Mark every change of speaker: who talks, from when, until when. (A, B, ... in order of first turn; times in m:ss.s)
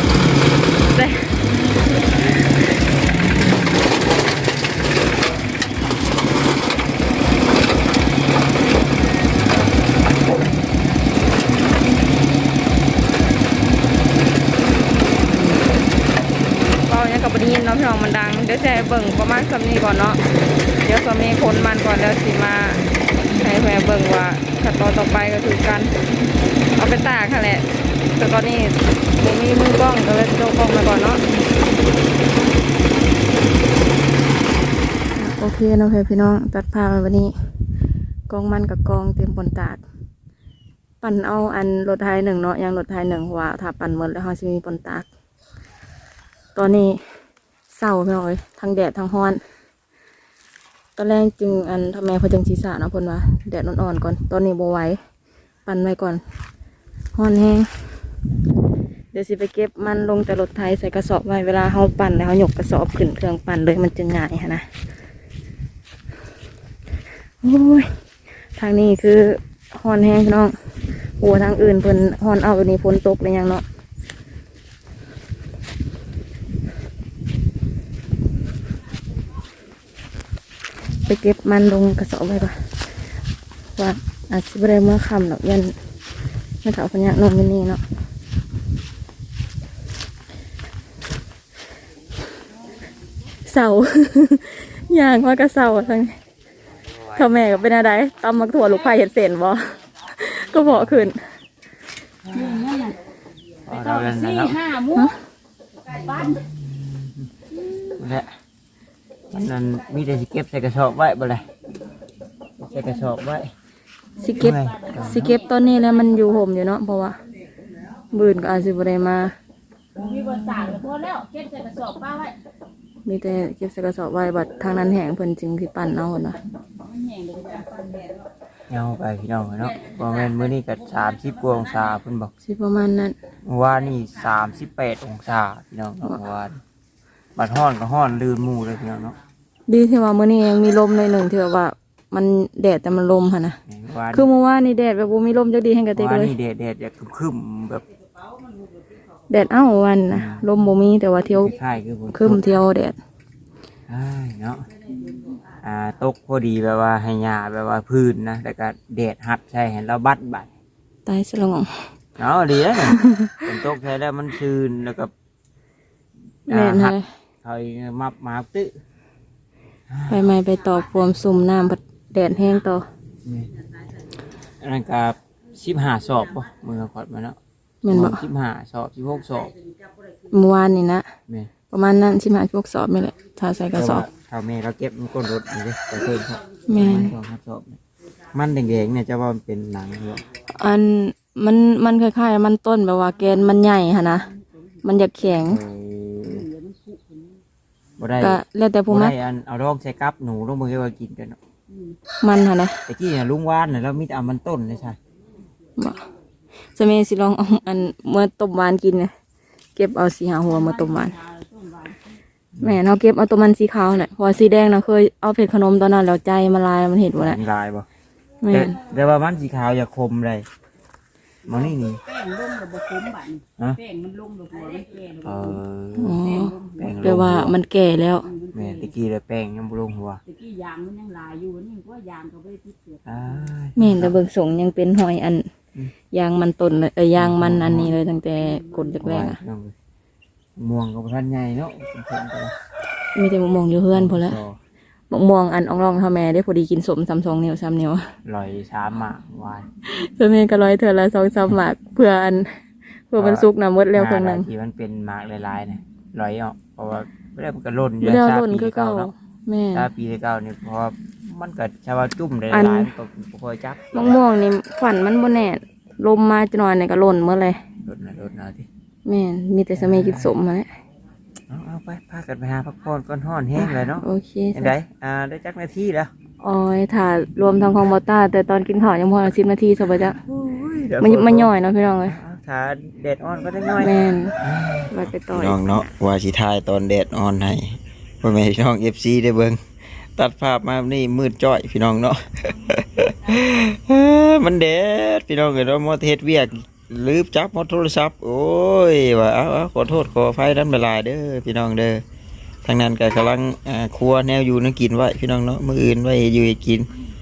0:00.9-0:01.4 A
0:16.9-0:20.2 A
0:20.8-0:26.0 A
0:26.8-0:27.6 A
0:28.2-0:31.2 A
0:35.2-0:37.3 A
0:38.3-0:39.8 A
0:41.0-0:45.1 A
0:46.6-0:47.0 A
0:47.7-0:49.4 A
0:51.0-0:55.0 A
0:55.7-0:56.2 A
0:57.2-0:57.7 A
0:59.1-1:04.6 A
1:07.4-1:07.9 A
1:08.6-1:10.5 A
1:11.0-1:13.6 A
1:21.1-1:22.7 A
1:23.8-1:25.7 A
1:26.6-1:27.8 A
1:33.5-1:36.1 A
1:36.9-1:37.3 B
1:37.2-1:41.2 A
1:40.7-1:41.0 B
1:42.3-1:42.6 B
1:42.4-1:43.0 C
1:43.7-1:44.7 B
1:43.8-1:45.0 C
1:44.9-1:45.2 A
1:46.1-1:46.4 C
1:46.2-1:47.2 B
1:47.9-1:48.3 B
1:49.3-1:51.4 B
1:52.6-1:53.5 B
1:54.2-1:57.2 A
1:54.4-1:55.4 B
1:58.1-1:59.3 A
2:00.0-2:02.4 C
2:03.1-2:06.4 A
2:06.9-2:08.0 C
2:08.7-2:12.3 B
2:12.4-2:13.2 A
2:13.4-2:16.6 B
2:17.4-2:19.2 B
2:19.7-2:23.6 A
2:23.7-2:24.3 B
2:24.1-2:26.4 A
2:26.0-2:27.8 B
2:29.3-2:31.6 A
2:30.1-2:30.4 B
2:31.4-2:32.4 B
2:32.1-2:33.0 A
2:33.9-2:34.6 B
2:35.6-2:40.5 B
2:41.1-2:41.7 A
2:42.2-2:45.1 B
2:42.8-2:43.5 A
2:46.5-2:48.7 B
2:46.5-2:47.1 A
2:49.9-2:50.2 B
2:50.1-2:52.8 A
2:54.6-2:57.4 B
2:57.8-2:58.2 A
2:57.9-2:59.5 B
3:00.3-3:01.1 A
3:01.7-3:04.1 A
3:03.7-3:07.8 B
3:06.7-3:07.1 A
3:08.3-3:10.2 B
3:10.6-3:14.3 A
3:14.8-3:15.6 A
3:15.4-3:16.5 B
3:16.5-3:17.2 C
3:18.0-3:21.4 B
3:18.2-3:19.2 A
3:22.2-3:22.8 A
3:22.9-3:25.0 B
3:25.8-3:26.1 A
3:26.8-3:29.1 A
3:29.8-3:31.2 A
3:31.4-3:32.0 C
3:32.6-3:37.4 A
3:37.2-3:37.9 B
3:38.4-3:38.8 A
3:38.5-3:40.5 B
3:41.5-3:42.0 B
3:42.1-3:45.2 C
3:45.2-3:46.2 B
3:46.0-3:48.3 A
3:46.4-3:46.7 C
3:46.8-3:47.5 B
3:48.5-3:50.2 B
3:50.4-3:53.0 C
3:53.0-3:54.2 B
3:53.8-3:55.4 A
3:56.1-3:59.4 A
3:57.2-3:57.9 B
3:59.0-3:59.7 B
4:00.6-4:02.5 B
4:03.2-4:04.4 A
4:03.9-4:04.6 B
4:05.1-4:08.0 A
4:08.3-4:09.7 B
4:10.0-4:12.4 A
4:13.1-4:14.5 A
4:13.2-4:19.1 B
4:18.0-4:19.9 A
4:19.7-4:24.2 B
4:22.5-4:22.9 A
4:23.9-4:27.6 A
4:27.8-4:28.7 B
4:29.1-4:30.7 A
4:29.8-4:30.3 B
4:31.5-4:36.1 B
4:33.6-4:34.7 A
4:36.4-4:40.2 A
4:40.2-4:41.5 B
4:41.0-4:42.2 A
4:42.0-4:49.6 B
4:43.8-4:44.4 A
4:44.9-4:45.9 A
4:50.2-5:02.0 B
5:02.6-5:06.9 B